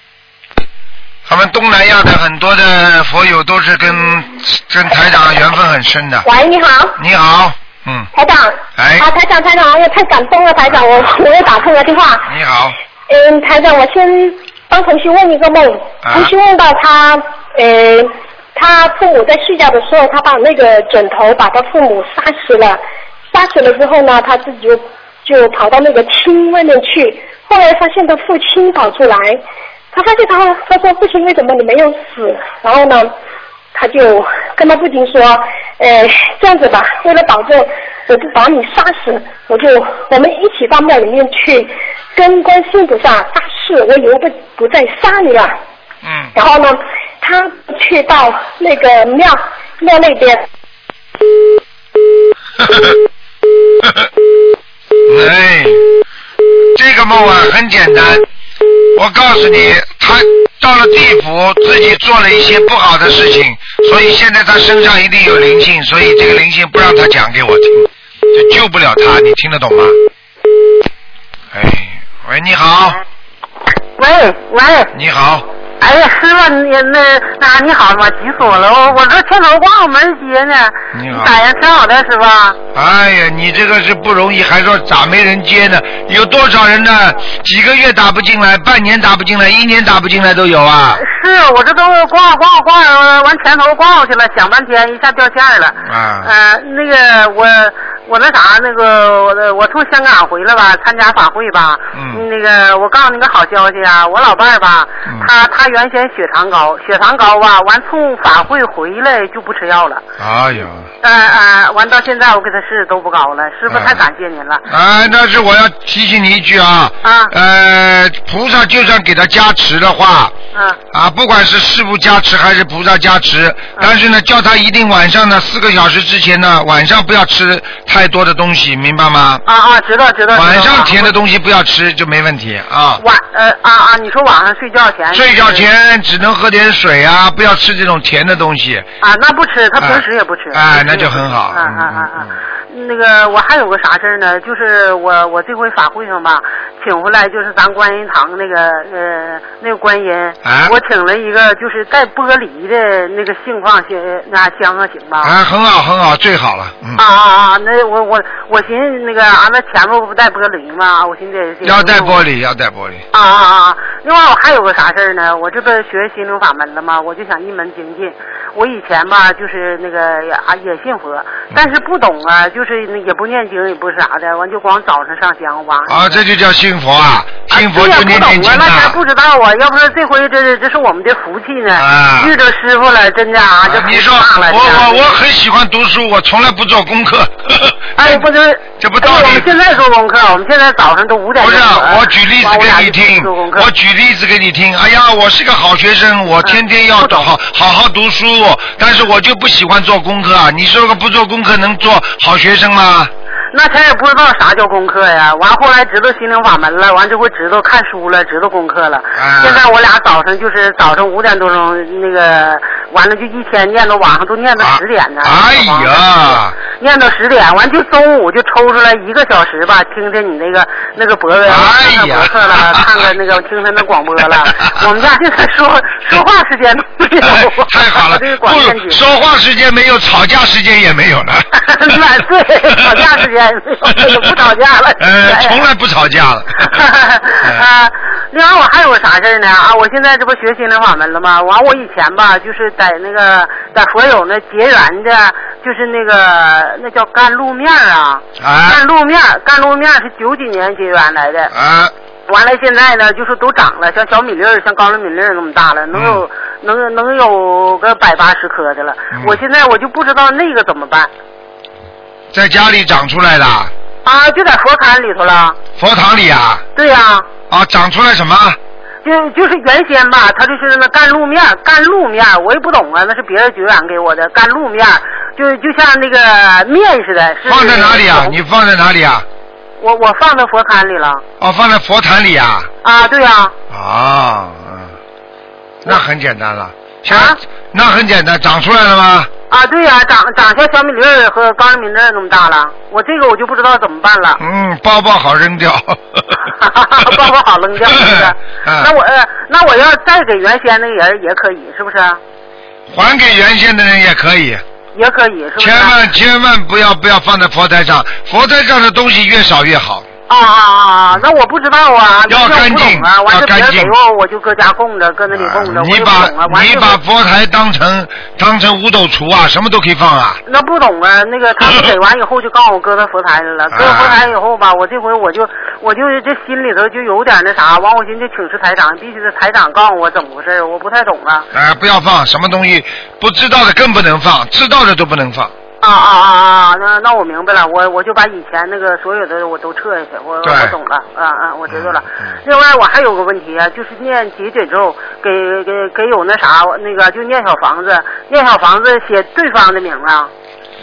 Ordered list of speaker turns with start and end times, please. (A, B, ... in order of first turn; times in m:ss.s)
0:01.3-0:06.3 A
0:06.2-0:07.0 B
0:07.0-0:08.1 A
0:08.1-0:12.3 B
0:08.8-0:09.1 A
0:12.2-0:12.8 A
0:13.1-0:29.4 B
0:16.0-0:16.3 A
0:29.9-0:33.1 B
0:33.7-0:45.6 B
0:46.0-0:46.3 A
0:46.3-0:50.4 B
0:52.6-0:53.0 A
0:53.8-0:54.1 A
0:55.0-0:55.8 A
0:56.7-0:58.2 A
0:58.9-1:10.0 A
1:11.5-1:13.0 A
1:14.0-1:14.9 C
1:14.9-1:15.4 A
1:15.8-1:22.6 C
1:20.9-1:21.3 A
1:22.7-1:31.0 A
1:31.0-1:50.0 C
1:35.8-1:36.3 A
1:41.9-1:42.2 A
1:50.2-1:50.9 A
1:51.0-1:54.6 C
1:53.7-1:54.0 A
1:54.7-2:00.3 A
1:57.0-1:57.3 C
2:00.5-2:00.8 C
2:00.9-2:09.4 A
2:09.4-2:11.1 C
2:10.3-2:13.0 A
2:13.0-2:15.7 C
2:15.1-2:18.8 A
2:19.0-2:35.3 C
2:19.8-2:22.4 A
2:30.4-2:30.8 A
2:35.2-2:37.0 A
2:37.0-2:42.2 C
2:41.6-2:43.0 A
2:43.1-2:56.2 C
2:55.9-2:59.0 A
2:57.5-3:05.2 C
3:01.7-3:02.3 A
3:03.6-3:08.3 A
3:08.0-3:13.7 C
3:08.8-3:09.5 A
3:11.4-3:23.1 A
3:16.4-3:17.3 C
3:23.5-3:49.0 C
3:29.1-3:29.6 A
3:34.6-3:36.6 A
3:41.4-3:43.1 A
3:44.4-3:44.8 A
3:47.2-3:52.0 A
3:51.6-3:55.6 C
3:52.8-3:53.1 A
3:53.9-3:54.3 A
3:55.0-3:56.8 A
3:56.6-4:11.5 C
3:57.4-3:57.7 A
4:08.4-4:08.8 A
4:11.5-4:11.9 A
4:12.3-4:21.1 C
4:15.9-4:16.2 A
4:19.1-4:19.4 A
4:22.3-4:23.7 A
4:24.0-4:25.6 C
4:25.8-4:26.6 A
4:26.8-4:27.3 C
4:27.5-4:28.6 A
4:29.0-4:38.4 C
4:37.4-4:39.2 A
4:39.8-4:41.2 C
4:41.4-4:42.7 A
4:42.8-4:43.5 C
4:43.7-4:45.0 A
4:45.8-4:49.3 A
4:47.1-4:47.4 C
4:49.5-4:54.4 C
4:54.4-4:56.4 A
4:56.6-5:02.2 C
4:57.8-4:58.9 A
5:02.9-5:04.6 A
5:04.9-5:06.0 C
5:05.6-5:10.0 A
5:10.3-5:17.0 C
5:12.3-5:13.9 A
5:15.3-5:20.4 A
5:20.4-5:31.5 C
5:23.7-5:24.2 A
5:31.5-5:35.5 A
5:35.8-5:50.3 C
5:40.4-5:40.8 A
5:41.7-5:42.4 A